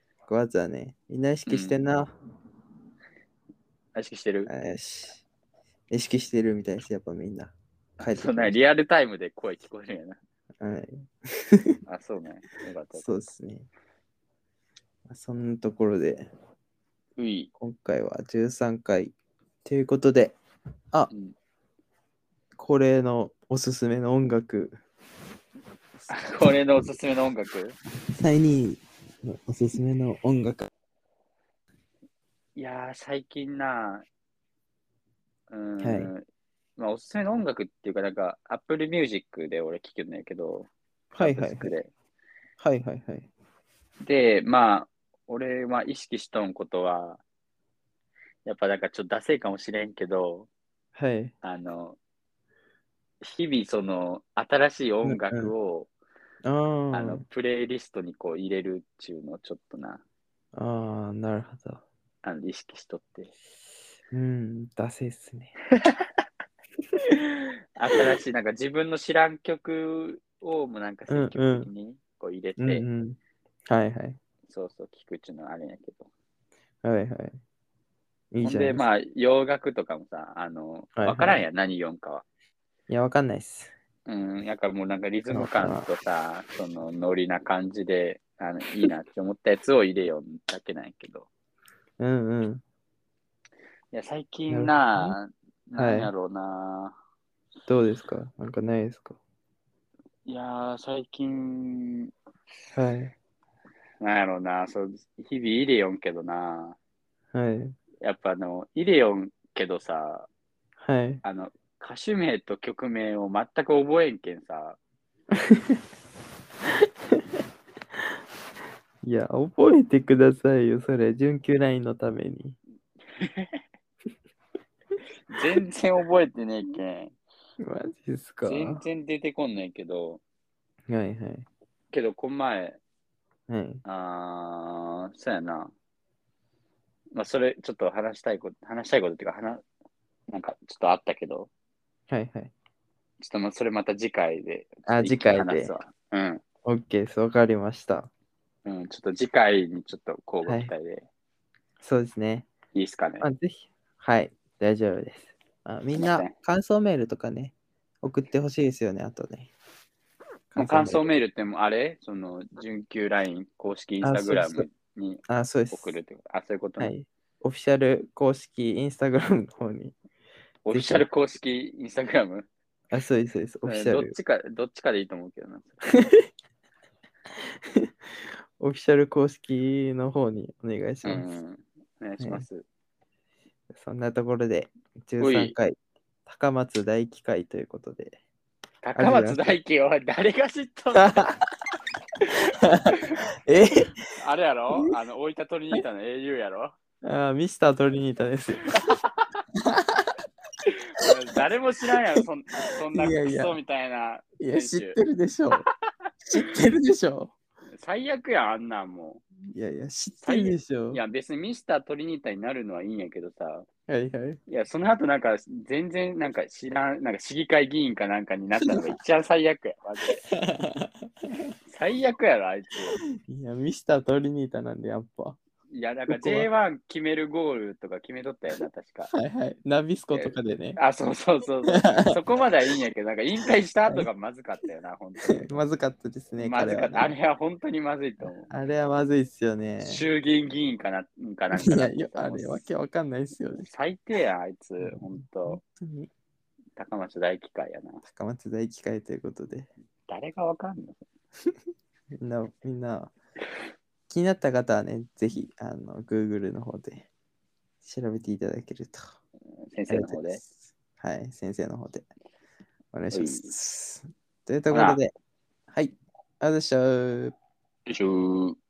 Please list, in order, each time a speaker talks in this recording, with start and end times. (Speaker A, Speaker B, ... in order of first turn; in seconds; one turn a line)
Speaker A: 0.2-2.1
Speaker B: 1.4-1.8
Speaker B: 3.9-4.5
Speaker A: 4.5-5.2
Speaker A: 5.9-8.6
Speaker B: 8.0-10.2
Speaker A: 10.6-11.8
Speaker B: 11.9-13.1
Speaker A: 12.9-13.7
Speaker A: 15.1-16.3
Speaker B: 17.2-17.5
Speaker A: 17.6-19.1
Speaker A: 19.6-20.4
Speaker B: 21.1-21.3
Speaker A: 22.6-24.8
Speaker B: 26.1-27.8
Speaker A: 28.1-30.7
Speaker B: 32.5-34.0
Speaker B: 35.5-36.2
Speaker A: 35.8-36.1
Speaker B: 36.8-40.7
Speaker A: 41.1-41.7
Speaker B: 41.2-41.9
Speaker A: 42.6-43.3
Speaker B: 44.0-47.2
Speaker B: 48.4-50.5
Speaker A: 50.9-51.3
Speaker B: 51.4-52.0
Speaker B: 53.2-55.9
Speaker A: 55.0-55.5
Speaker A: 56.4-57.2
Speaker B: 56.9-60.0
Speaker A: 60.5-61.8
Speaker B: 62.2-63.3
Speaker A: 64.1-65.5
Speaker B: 67.3-72.8
Speaker A: 71.1-71.7
Speaker A: 72.6-74.2
Speaker B: 74.5-76.1
Speaker A: 76.8-77.4
Speaker A: 78.3-78.8
Speaker B: 78.4-82.2
Speaker A: 81.0-81.4
Speaker A: 82.9-83.7
Speaker B: 84.0-91.3
Speaker A: 85.3-85.9
Speaker A: 92.0-92.6
Speaker B: 93.9-97.0
Speaker A: 94.5-95.2
Speaker A: 95.8-96.1
Speaker A: 97.7-99.2
Speaker B: 100.2-102.1
Speaker A: 102.7-103.1
Speaker B: 104.0-106.8
Speaker A: 107.3-107.8
Speaker B: 108.0-110.3
Speaker A: 110.8-111.2
Speaker B: 111.2-114.8
Speaker A: 115.3-115.8
Speaker A: 119.0-122.6
Speaker B: 123.2-123.6
Speaker B: 125.3-127.1
Speaker A: 127.6-128.8
Speaker B: 128.4-130.2
Speaker A: 130.9-131.4
Speaker B: 131.9-132.8
Speaker A: 133.5-133.8
Speaker B: 133.8-135.7
Speaker B: 137.1-139.6
Speaker B: 140.3-141.5
Speaker A: 142.1-142.5
Speaker B: 143.2-146.4
Speaker A: 144.9-145.7
Speaker A: 146.6-148.1
Speaker B: 148.6-151.1
Speaker A: 150.4-150.7
Speaker A: 151.8-152.5
Speaker B: 152.7-153.2
Speaker A: 153.2-159.5
Speaker B: 155.9-156.3
Speaker A: 160.5-161.0
Speaker B: 160.6-166.9
Speaker A: 164.0-164.7
Speaker A: 165.3-166.0
Speaker A: 166.8-169.9
Speaker B: 170.6-172.5
Speaker A: 170.7-171.1
Speaker A: 172.9-174.2
Speaker B: 173.7-175.8
Speaker A: 177.6-181.2
Speaker B: 181.0-182.6
Speaker A: 182.2-182.4
Speaker A: 183.7-188.2
Speaker B: 185.2-185.5
Speaker B: 188.8-191.3
Speaker A: 188.9-189.5
Speaker A: 190.9-191.4
Speaker A: 192.6-193.9
Speaker B: 192.9-193.2
Speaker B: 194.2-196.7
Speaker A: 197.0-198.8
Speaker B: 198.7-199.2
Speaker A: 199.6-200.1
Speaker B: 200.7-205.0
Speaker A: 202.9-203.6
Speaker A: 204.4-205.7
Speaker A: 206.3-207.3
Speaker B: 207.8-209.2
Speaker A: 209.4-211.0
Speaker B: 210.2-213.7
Speaker A: 213.9-214.4
Speaker B: 214.5-220.2
Speaker A: 220.3-221.1
Speaker B: 221.7-223.0
Speaker A: 223.1-225.4
Speaker B: 225.7-229.1
Speaker A: 226.1-226.5
Speaker A: 229.1-230.8
Speaker B: 230.1-235.6
Speaker A: 231.7-232.1
Speaker A: 235.3-237.1
Speaker B: 236.4-238.5
Speaker A: 238.5-240.0
Speaker B: 239.8-242.6
Speaker A: 241.6-243.7
Speaker B: 243.6-245.6
Speaker A: 244.8-246.1
Speaker B: 246.8-248.0
Speaker A: 248.0-249.7
Speaker B: 250.1-251.1
Speaker A: 252.2-253.1
Speaker A: 254.1-257.1
Speaker A: 257.8-259.1
Speaker B: 259.7-260.4
Speaker A: 259.9-262.0
Speaker A: 262.9-265.1
Speaker B: 263.1-263.5
Speaker B: 264.7-265.0
Speaker A: 265.7-267.4
Speaker B: 267.9-268.6